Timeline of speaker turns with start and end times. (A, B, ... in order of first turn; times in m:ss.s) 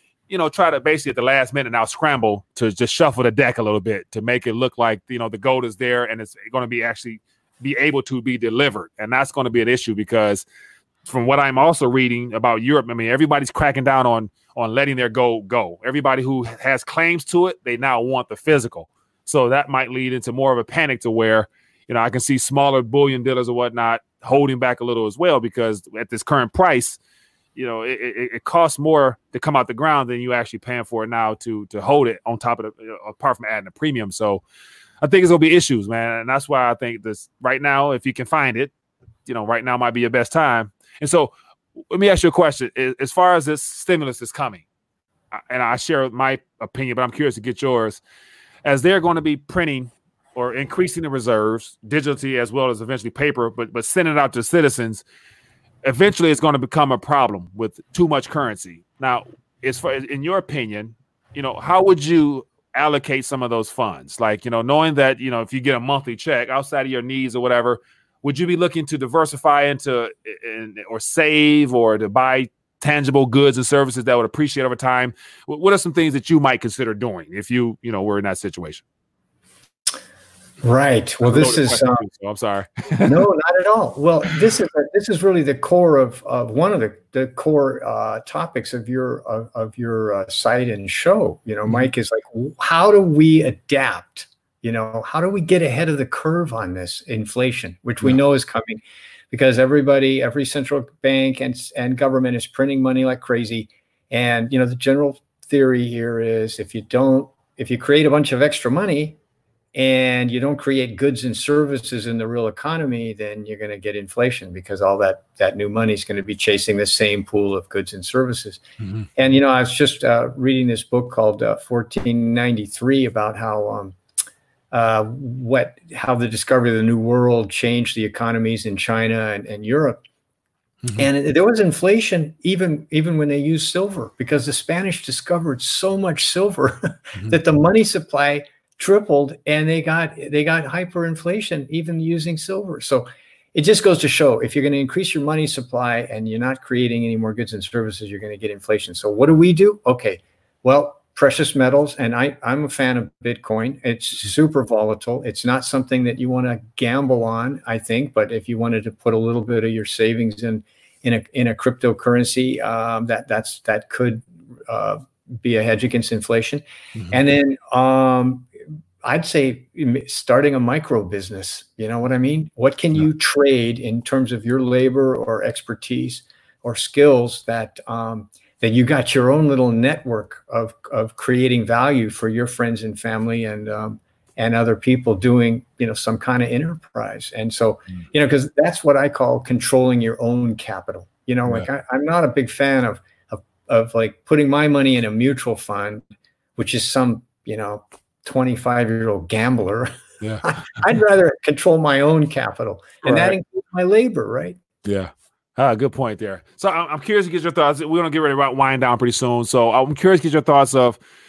0:00.3-0:10.5 A
0:11.0-0:27.0 A
0:27.6-0:34.4 A
0:35.0-0:38.7 A
0:39.3-0:41.3 A
0:41.9-0:44.7 A
0:45.3-0:48.0 A
0:48.6-0:55.0 A
0:55.8-1:18.8 A
1:20.6-1:22.0 B
1:21.2-1:23.2 A
1:23.0-1:38.8 B
1:39.3-1:49.2 B
1:49.8-1:58.6 B
1:58.8-1:59.1 A
1:59.2-2:04.0 B
2:04.7-2:10.0 B
2:11.0-2:48.5 B
2:47.0-2:47.2 A
2:49.0-3:16.0 B
3:16.6-3:19.9 B
3:20.2-3:20.6 A
3:20.4-3:24.6 B
3:23.0-3:23.4 A
3:24.8-3:31.0 A